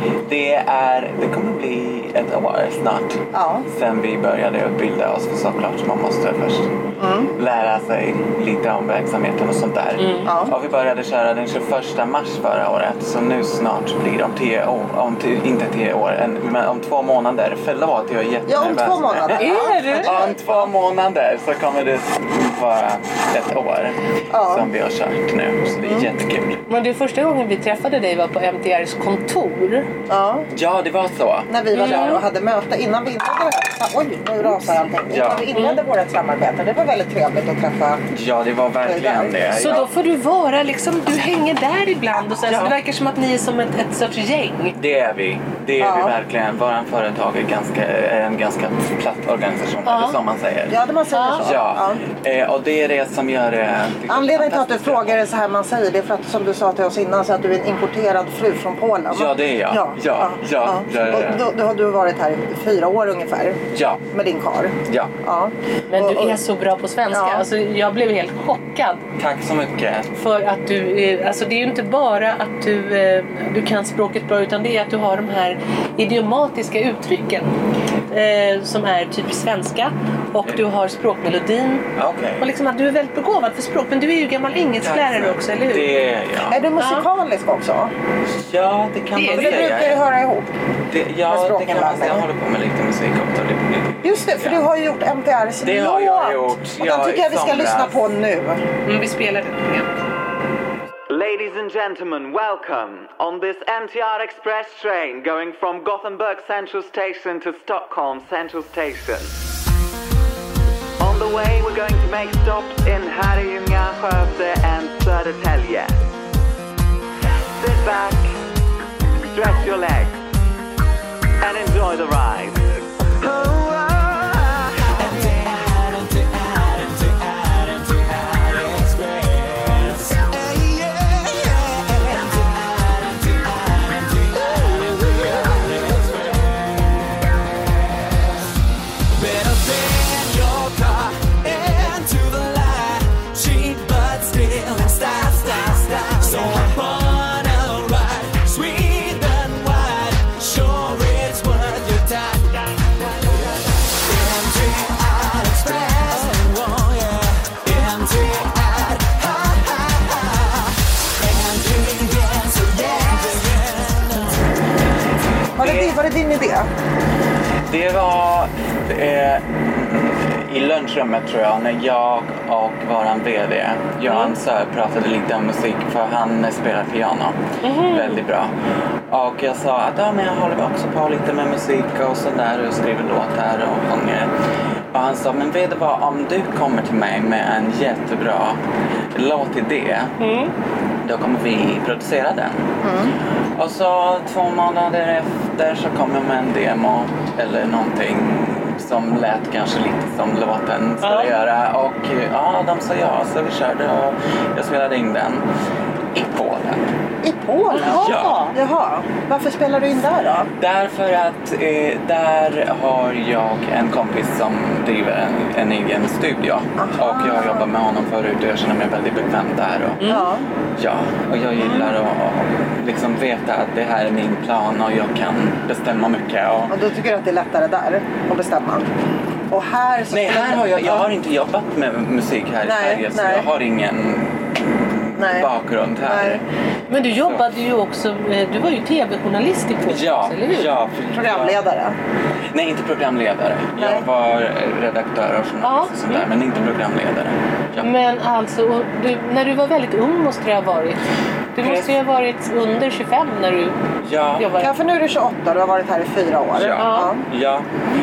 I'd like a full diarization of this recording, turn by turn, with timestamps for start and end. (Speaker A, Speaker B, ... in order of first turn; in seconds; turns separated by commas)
Speaker A: 0.2-6.7, Speaker B: 3.3-3.7, Speaker B: 7.0-7.3, Speaker A: 7.4-26.6, Speaker C: 10.0-10.3, Speaker B: 10.2-10.6, Speaker B: 18.5-20.4, Speaker C: 19.4-20.3, Speaker B: 24.3-24.7, Speaker B: 25.8-26.1, Speaker C: 26.7-29.9, Speaker B: 30.1-30.5, Speaker A: 30.5-32.2, Speaker B: 31.5-38.1, Speaker C: 31.7-32.2, Speaker A: 35.1-35.5, Speaker C: 35.5-35.8, Speaker A: 38.1-39.9, Speaker B: 38.9-39.4, Speaker C: 39.5-44.8, Speaker A: 42.5-42.8, Speaker A: 44.8-50.8, Speaker B: 45.8-46.2, Speaker C: 49.9-50.2, Speaker B: 50.7-52.0, Speaker C: 51.1-51.4, Speaker A: 51.4-55.2, Speaker B: 54.1-66.4, Speaker A: 59.1-61.4, Speaker A: 63.7-64.0, Speaker A: 64.9-65.1, Speaker C: 65.9-69.0, Speaker B: 67.1-67.5, Speaker A: 69.2-70.1, Speaker C: 70.2-77.5, Speaker C: 78.1-81.9, Speaker A: 82.0-82.5, Speaker C: 82.4-85.9, Speaker A: 84.8-86.6, Speaker B: 86.5-87.9, Speaker C: 86.8-87.1, Speaker A: 88.3-90.0, Speaker C: 89.2-89.9, Speaker B: 89.3-90.5, Speaker A: 90.9-94.7, Speaker B: 91.3-92.3, Speaker B: 94.0-98.7, Speaker A: 95.6-98.0, Speaker C: 98.8-99.9, Speaker D: 101.1-109.3, Speaker D: 111.0-116.0, Speaker D: 117.5-118.3, Speaker D: 119.3-120.2, Speaker D: 121.4-122.6, Speaker E: 123.5-124.4, Speaker E: 125.1-136.8, Speaker A: 125.6-126.2, Speaker A: 126.8-129.7, Speaker A: 130.3-130.9, Speaker E: 139.2-152.7, Speaker A: 139.2-140.7, Speaker A: 141.3-152.2, Speaker E: 153.4-160.6, Speaker A: 154.1-154.7, Speaker A: 155.5-156.9, Speaker A: 157.6-158.8, Speaker E: 161.2-164.4, Speaker A: 161.2-163.8, Speaker A: 165.6-165.9, Speaker B: 165.6-166.7, Speaker A: 167.7-178.5, Speaker C: 174.1-174.3, Speaker C: 177.6-178.2, Speaker A: 179.1-184.3, Speaker A: 184.9-188.6, Speaker A: 189.1-190.2, Speaker C: 190.2-190.5, Speaker A: 191.0-192.7, Speaker B: 192.8-193.2, Speaker A: 193.6-205.4, Speaker C: 201.0-201.3, Speaker A: 206.1-206.9, Speaker B: 207.2-210.5, Speaker C: 207.7-208.0, Speaker A: 207.8-208.6, Speaker A: 210.6-220.1, Speaker B: 216.8-217.7, Speaker C: 220.0-220.3, Speaker B: 220.1-220.5, Speaker A: 220.8-226.7, Speaker B: 221.6-221.9, Speaker B: 226.7-228.9, Speaker B: 229.5-231.1, Speaker A: 230.1-236.4, Speaker B: 232.6-233.5, Speaker B: 235.2-236.4, Speaker C: 236.9-240.7, Speaker A: 237.1-237.4, Speaker A: 239.9-241.6, Speaker B: 241.1-242.0, Speaker A: 242.5-247.9, Speaker B: 243.8-244.1, Speaker C: 245.6-246.3, Speaker C: 247.8-251.0, Speaker C: 251.6-253.8, Speaker A: 251.6-251.9, Speaker A: 254.0-254.5, Speaker C: 254.4-254.7, Speaker B: 254.6-257.3, Speaker A: 256.6-257.7, Speaker C: 256.8-257.1